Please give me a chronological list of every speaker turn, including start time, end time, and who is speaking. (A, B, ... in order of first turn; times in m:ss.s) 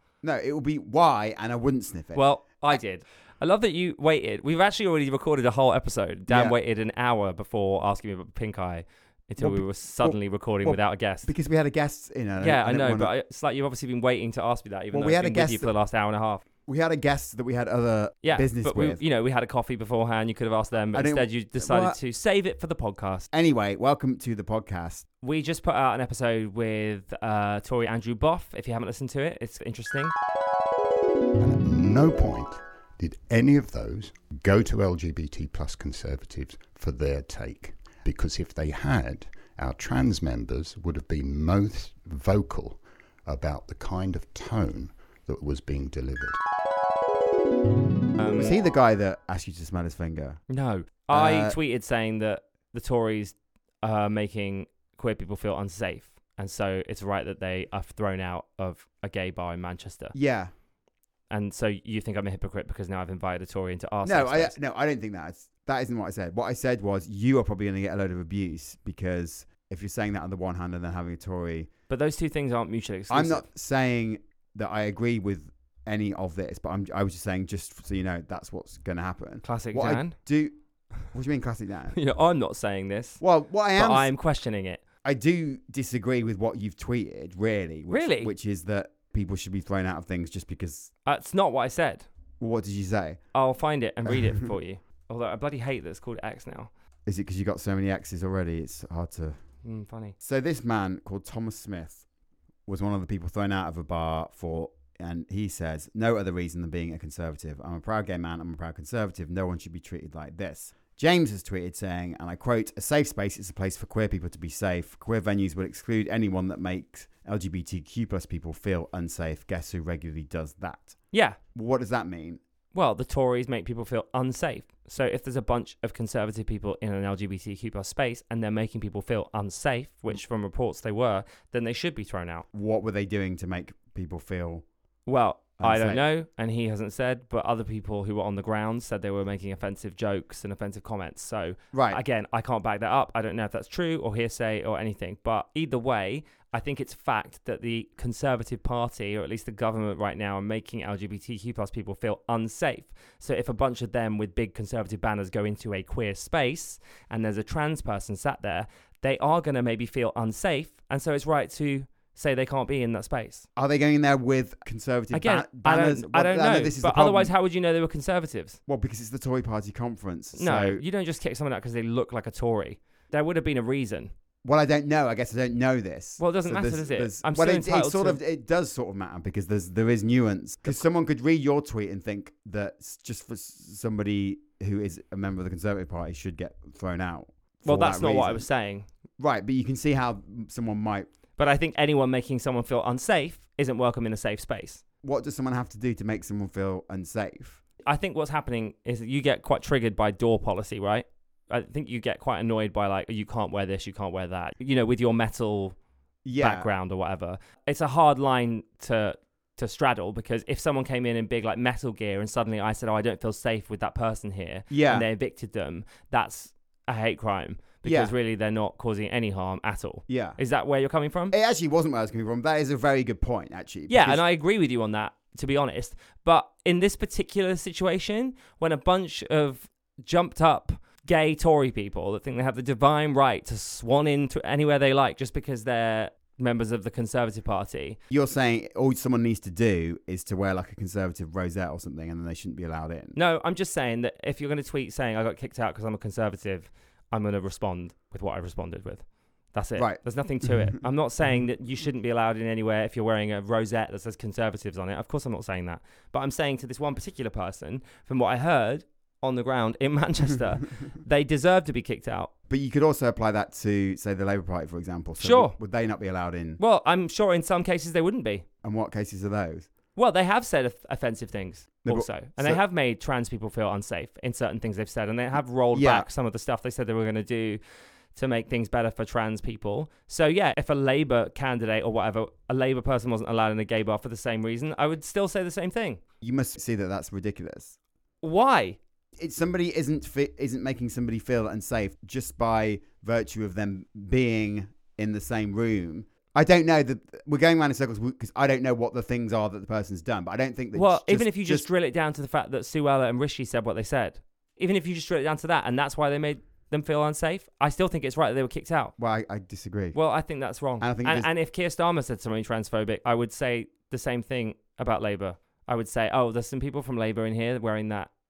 0:00.2-0:02.8 A
0:02.2-0:11.3 B
0:06.3-0:06.6 A
0:09.4-0:13.1 A
0:12.4-0:16.4 B
0:14.9-0:15.7 A
0:16.7-0:19.0 A
0:18.2-0:23.3 B
0:20.9-0:22.0 A
0:23.3-0:25.0 A
0:25.2-0:30.1 B
0:31.4-0:46.4 C
0:48.2-0:48.6 B
0:48.3-0:50.4 A
0:50.5-1:00.2 B
0:51.1-0:51.6 A
1:00.1-1:00.5 A
1:01.3-1:04.6 B
1:04.0-1:11.7 A
1:11.9-1:13.4 B
1:13.1-1:20.6 A
1:19.4-1:20.2 B
1:21.1-1:22.0 A
1:21.9-1:23.2 B
1:23.2-1:24.1 A
1:23.7-1:24.8 B
1:25.0-1:30.9 A
1:27.9-1:28.3 B
1:31.1-1:32.1 B
1:32.4-1:33.2 A
1:33.3-1:36.7 B
1:34.1-1:34.5 A
1:37.1-1:39.4 A
1:39.6-1:40.2 B
1:40.2-1:42.0 A
1:42.7-2:01.0 A
2:01.1-2:01.4 B
2:01.6-2:02.4 A
2:02.7-2:12.5 B
2:12.5-2:14.6 A
2:15.1-2:43.5 B
2:15.6-2:16.0 A
2:21.7-2:22.0 A
2:43.6-2:47.3 A
2:45.1-2:48.6 B
2:48.7-2:50.8 A
2:50.4-2:54.1 B
2:54.4-3:08.5 A
2:56.2-2:58.2 B
3:07.7-3:08.9 B
3:09.2-3:11.1 A
3:11.4-3:14.8 B
3:15.0-3:17.6 A
3:17.9-3:25.8 B
3:26.2-3:26.7 A
3:26.4-3:41.4 B
3:34.7-3:35.1 A
3:37.8-3:38.1 A
3:40.1-3:40.4 A
3:41.3-3:44.2 A
3:43.9-3:58.0 B
3:58.1-4:03.2 A
4:03.2-4:22.3 B
4:09.8-4:10.8 A
4:22.5-4:26.6 A
4:25.2-4:25.6 B
4:26.6-4:28.5 B
4:28.6-4:29.7 A
4:30.0-4:37.6 B
4:31.8-4:32.6 A
4:35.7-4:36.1 A
4:38.1-4:46.0 B
4:46.2-4:47.8 A
4:48.2-4:48.8 B
4:49.2-5:01.7 A
5:00.7-5:08.9 B
5:09.0-5:10.0 A
5:09.9-5:18.1 B
5:10.8-5:11.3 A